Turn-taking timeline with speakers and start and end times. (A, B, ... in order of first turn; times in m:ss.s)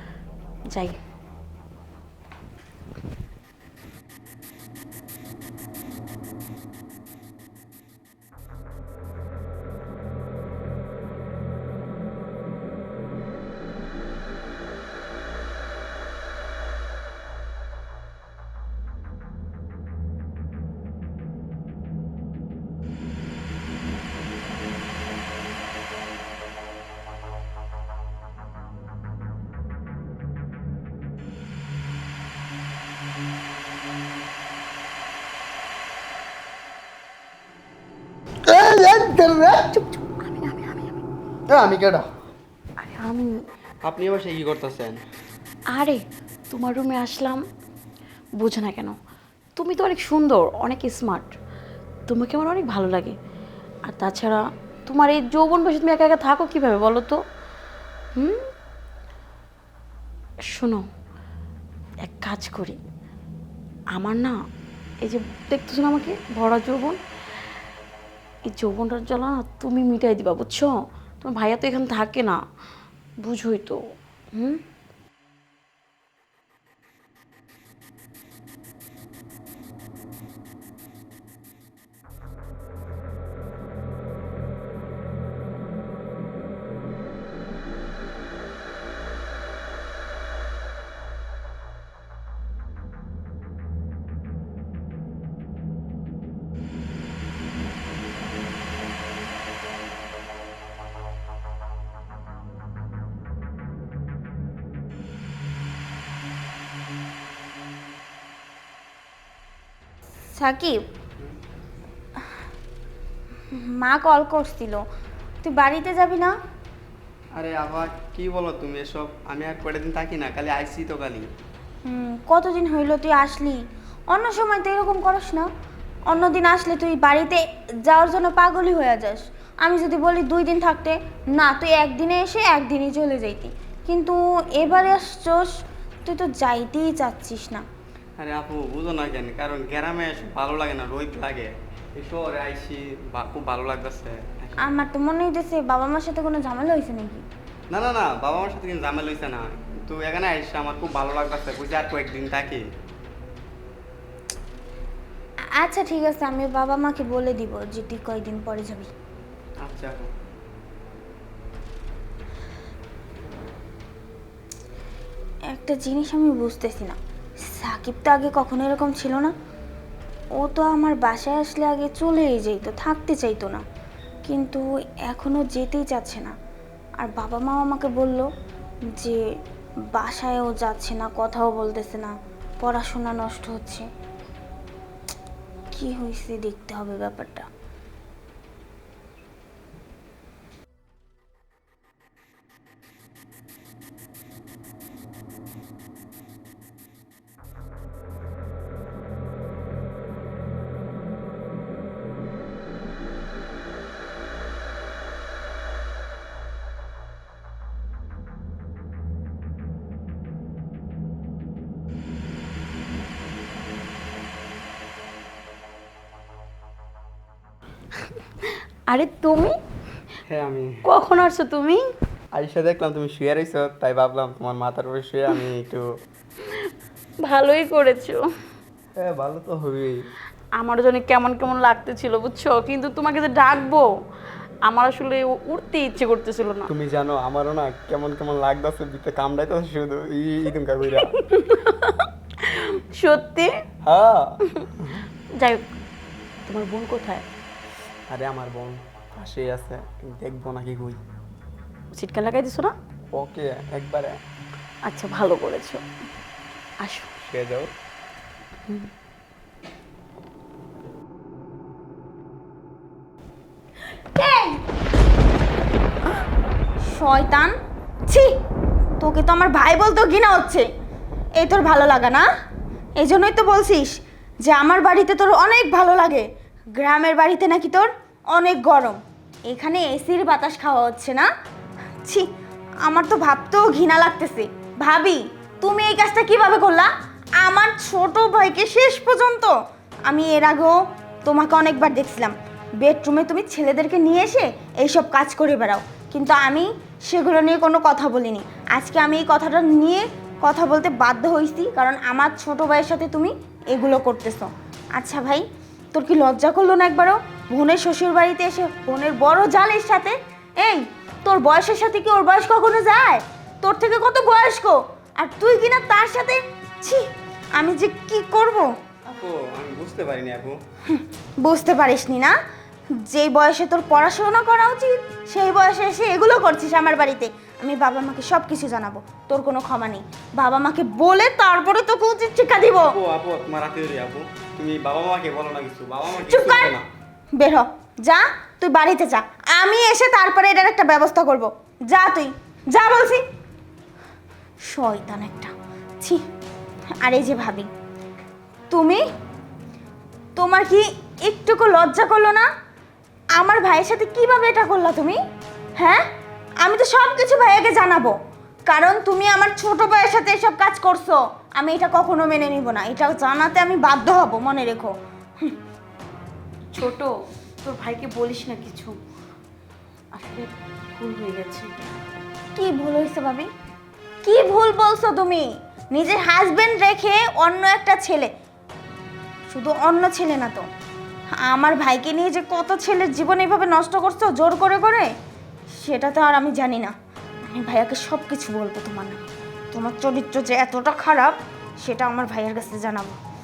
0:00.7-0:01.0 A
0:38.5-0:41.0 A
0:41.5-0:42.1 B
0:42.8-0:43.3 A
0:43.8-0:45.0 B
0:45.7-0:47.4 A
0:48.4-0:48.9 A
0:49.6-0:51.3 A
0:52.1-0:53.2 A
0:53.9-0:57.2 A
0:58.2-0:58.5 A
1:00.5-1:00.8 A
1:02.0-1:02.8 A
1:03.9-1:04.4 A
1:05.0-1:07.0 A
1:08.5-1:12.4 A
1:13.2-1:13.8 A
1:14.3-1:14.6 A
1:50.4-1:50.8 C
1:53.5-1:54.8 C
1:55.4-1:56.3 C
1:57.4-2:01.3 B
2:01.8-2:05.5 C
2:06.1-2:15.5 C
2:16.0-2:17.6 C
2:18.2-2:24.7 B
2:24.6-2:27.2 C
2:27.7-2:32.6 B
2:35.6-2:38.9 C
2:39.6-2:40.1 B
2:45.5-2:47.0 C
2:47.5-2:49.3 C
2:50.4-2:53.6 C
2:54.2-2:56.3 C
2:57.0-2:58.3 C
2:59.0-2:59.2 C
2:59.9-3:03.8 C
3:05.7-3:07.4 C
3:38.9-3:39.6 A
3:40.3-3:40.8 B
3:40.8-3:41.8 A
3:42.3-3:45.8 B
3:46.4-3:48.2 A
3:49.0-3:50.0 B
3:50.6-3:53.9 A
3:54.7-3:56.7 A
3:56.7-4:01.1 B
4:01.0-4:03.5 A
4:03.8-4:05.0 B
4:06.5-4:07.2 A
4:08.1-4:11.0 B
4:11.9-4:12.7 A
4:13.1-4:14.2 B
4:14.8-4:15.8 A
4:16.8-4:17.1 A
4:17.2-4:17.7 B
4:24.2-4:24.4 C
4:26.8-4:27.5 C
4:29.0-4:30.6 C
4:31.4-4:32.2 C
4:33.0-4:41.3 C
4:42.8-4:46.9 C
4:47.4-4:49.5 C
4:50.1-5:18.7 C
5:19.1-5:20.6 B
5:20.9-5:22.3 C
5:23.0-5:32.9 C
5:32.9-5:36.8 B
5:36.1-5:36.7 C
5:37.4-5:43.2 C
5:44.7-5:46.2 C
5:47.0-5:47.7 C
5:48.7-5:49.0 C
5:50.4-5:52.5 C
5:53.4-5:55.2 C
5:56.6-5:58.1 C
5:58.7-6:05.5 C
6:06.7-6:09.0 A
6:10.1-6:11.7 A
6:12.5-6:13.5 C
6:14.2-6:18.3 C
6:19.5-6:20.6 C
6:21.4-6:25.1 C
6:25.8-6:26.9 C
6:27.5-6:33.2 C